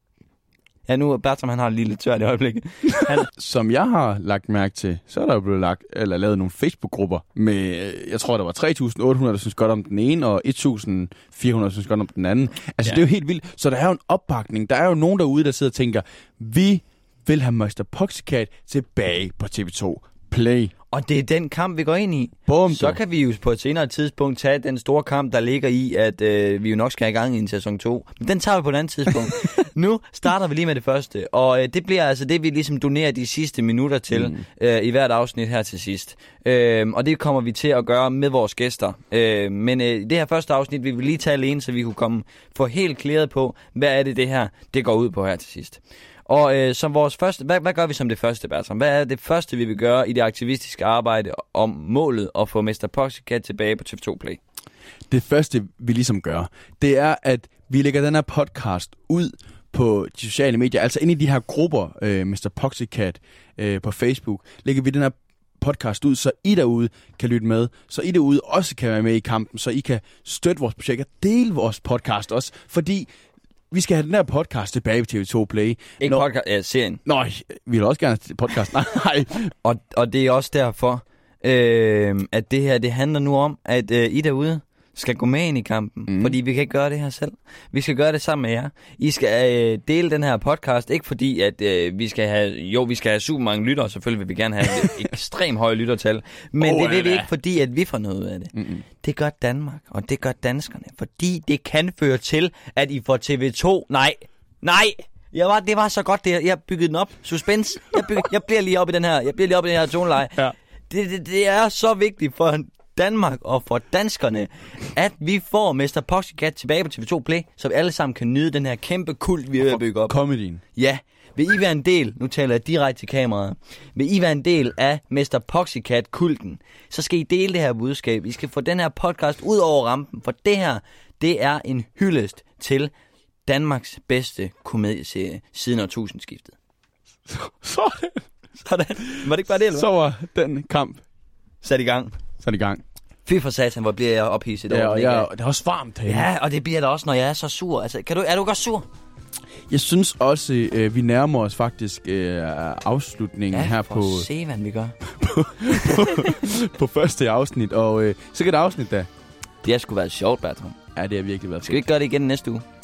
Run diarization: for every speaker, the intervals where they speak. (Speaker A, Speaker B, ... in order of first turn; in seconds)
Speaker A: 0.9-3.3, 20.9-54.4, 76.0-77.0, 79.6-120.2, 120.8-132.9, 133.4-136.6, 138.6-139.9, 141.6-142.1, 143.2-145.3, 146.1-148.8, 153.5-155.0, 155.7-156.5, 159.6-160.8, 161.6-162.6
Speaker B: 3.0-20.7, 22.5-23.0, 34.1-34.4, 55.1-73.1, 73.7-76.2, 77.0-79.5, 86.1-86.4, 94.7-95.0, 96.6-97.3, 98.5-98.8, 119.6-120.6, 137.3-138.2, 139.0-141.0, 142.4-142.8, 144.7-146.3, 149.7-154.3, 155.0-159.1, 160.9-161.8